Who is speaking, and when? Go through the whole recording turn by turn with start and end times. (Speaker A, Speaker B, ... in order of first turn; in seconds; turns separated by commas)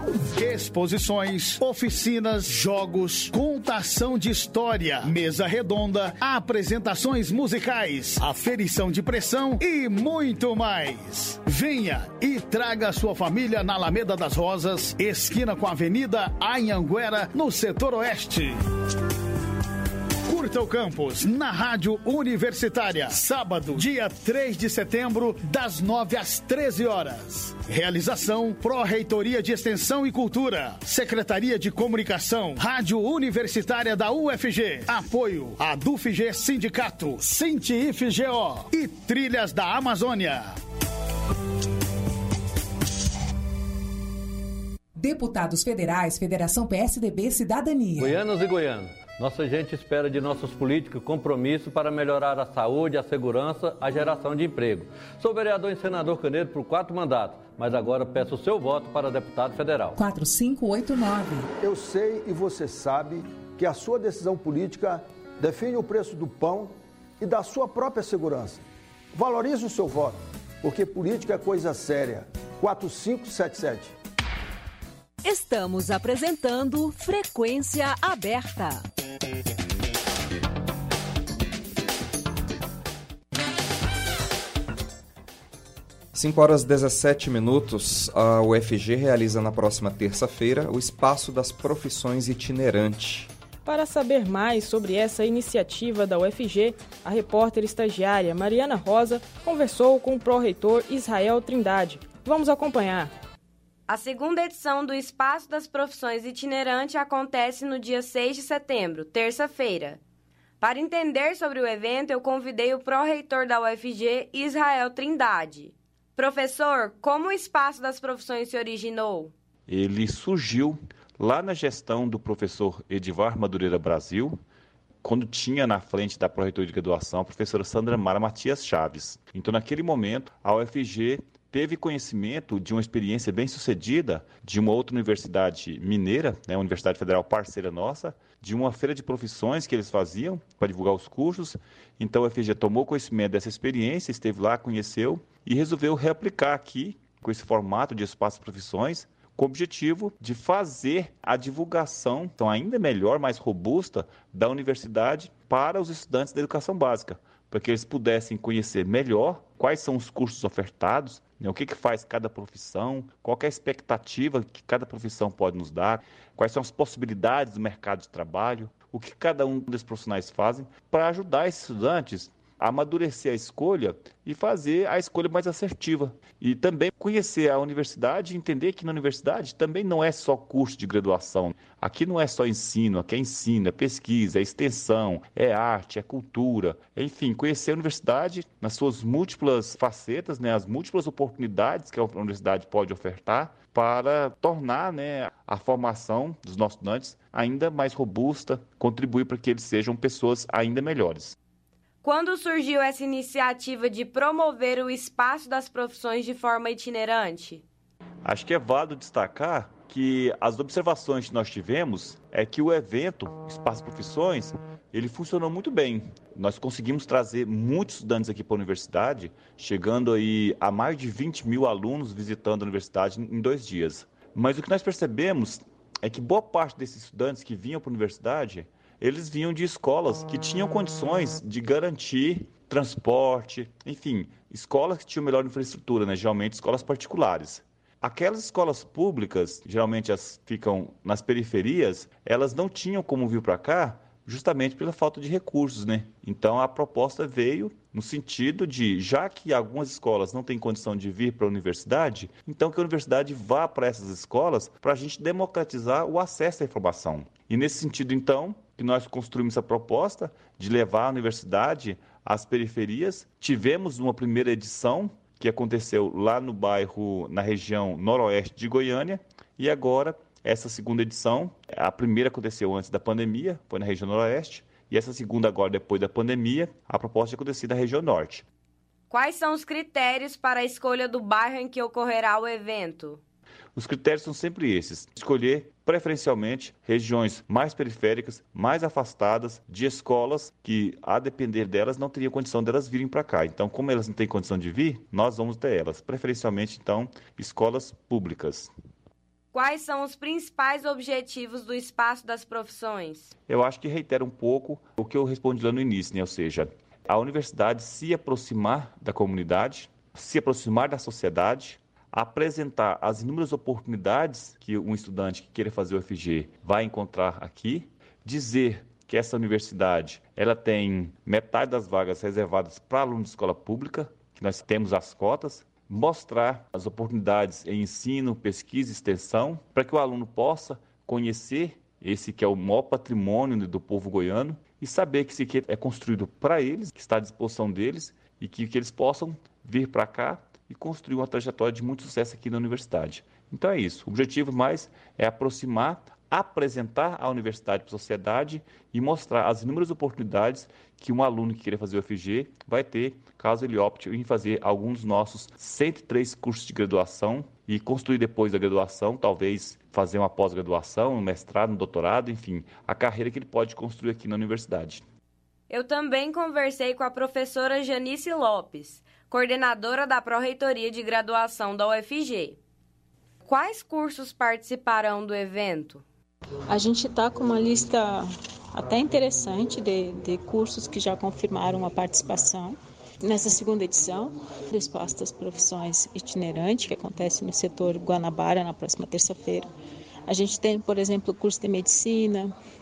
Speaker A: 0.4-18.6, Speaker A: 20.3-40.6, Speaker B: 45.0-48.1, Speaker C: 48.0-60.0, Speaker B: 60.0-61.5, Speaker D: 61.6-74.0, Speaker E: 75.2-78.8, Speaker F: 86.1-93.3, Speaker G: 93.7-103.1, Speaker H: 103.9-110.0, Speaker H: 110.6-119.3, Speaker I: 119.7-124.4, Speaker I: 125.0-201.4, Speaker H: 202.0-207.6, Speaker I: 208.2-278.5, Speaker H: 279.1-283.2, Speaker I: 283.8-298.7, Speaker H: 299.5-303.3, Speaker I: 303.5-365.0, Speaker H: 365.7-372.6, Speaker H: 373.5-376.0, Speaker J: 376.7-389.7, Speaker J: 390.3-392.5